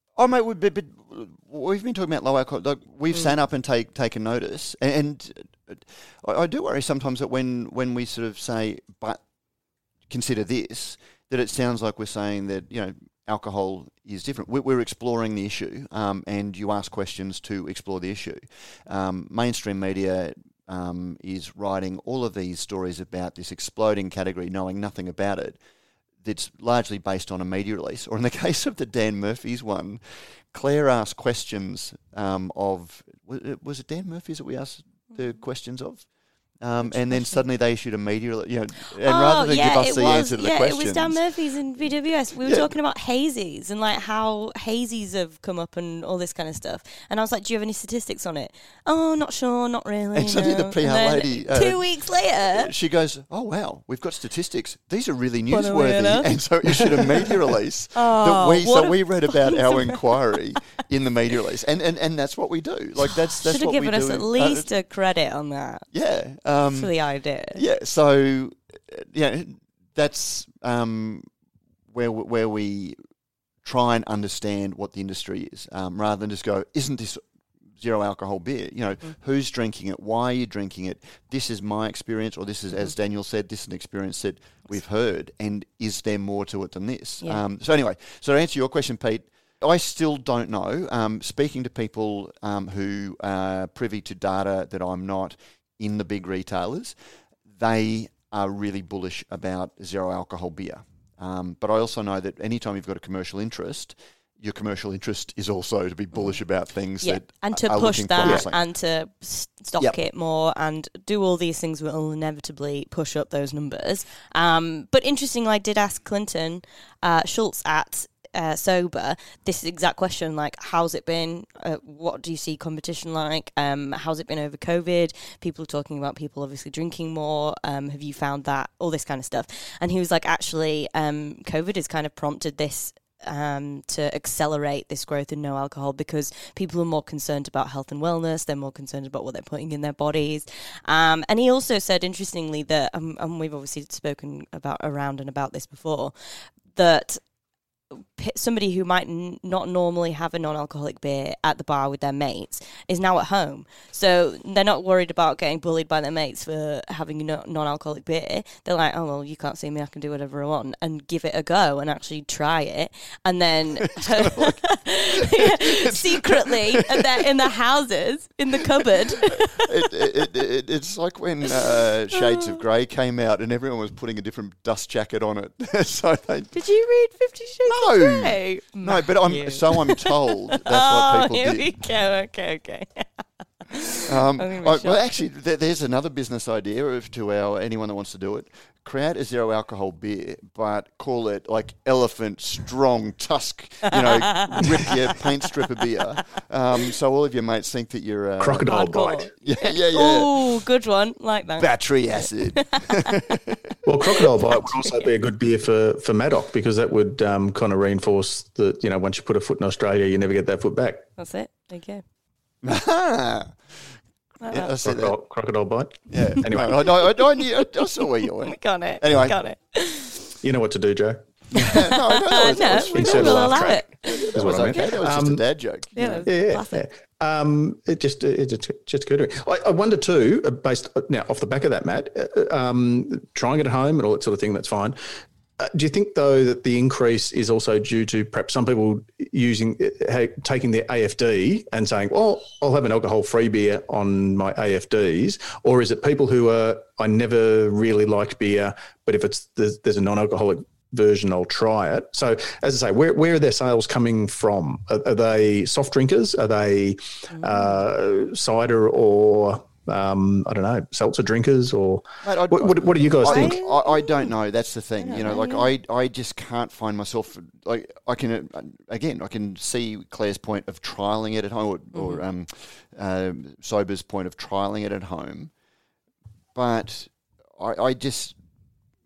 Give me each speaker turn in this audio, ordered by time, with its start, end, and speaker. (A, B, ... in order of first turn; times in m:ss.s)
0:00.2-0:09.2 A
0:10.1-0:25.6 A
0:26.2-0:30.0 A
0:30.5-0:36.0 A
0:36.6-0:41.2 A
0:36.9-0:37.4 B
0:39.0-0:52.7 B
0:42.4-0:42.7 A
0:50.1-0:51.8 A
0:52.4-1:04.7 A
0:55.5-0:56.3 B
0:56.9-0:57.3 B
0:57.9-1:00.4 B
1:03.4-1:05.9 B
1:05.9-1:06.9 A
1:06.7-1:07.6 B
1:07.5-1:11.3 A
1:11.9-1:13.0 A
1:13.6-1:17.2 A
1:17.8-1:36.9 A
1:37.5-1:48.6 A
1:47.0-2:26.1 B
2:26.7-2:27.2 B
2:28.2-2:50.0 B
2:43.8-2:44.6 A
2:45.1-2:47.5 A
2:48.8-2:56.6 A
2:51.5-2:52.6 B
2:56.5-3:05.0 B
2:57.6-3:01.7 A
3:04.0-3:18.7 A
3:13.8-3:15.2 B
3:18.4-3:19.3 C
3:18.7-3:23.2 B
3:19.3-3:20.3 A
3:21.6-3:23.8 A
3:23.8-3:31.0 C
3:24.2-3:25.0 B
3:31.2-3:32.0 B
3:32.6-3:33.6 A
3:34.4-3:34.7 B
3:34.5-3:35.2 A
3:34.8-3:36.8 C
3:36.1-3:39.4 A
3:38.4-3:40.3 B
3:40.4-3:41.7 C
3:41.5-3:46.2 A
3:41.5-3:44.8 B
3:42.9-3:45.4 C
3:46.0-3:46.8 B
3:46.2-3:55.0 C
3:55.6-4:23.6 C
4:17.3-4:17.8 B
4:22.2-4:35.5 A
4:23.2-4:24.3 B
4:25.0-4:25.7 B
4:31.9-4:32.2 B
4:36.5-4:38.4 A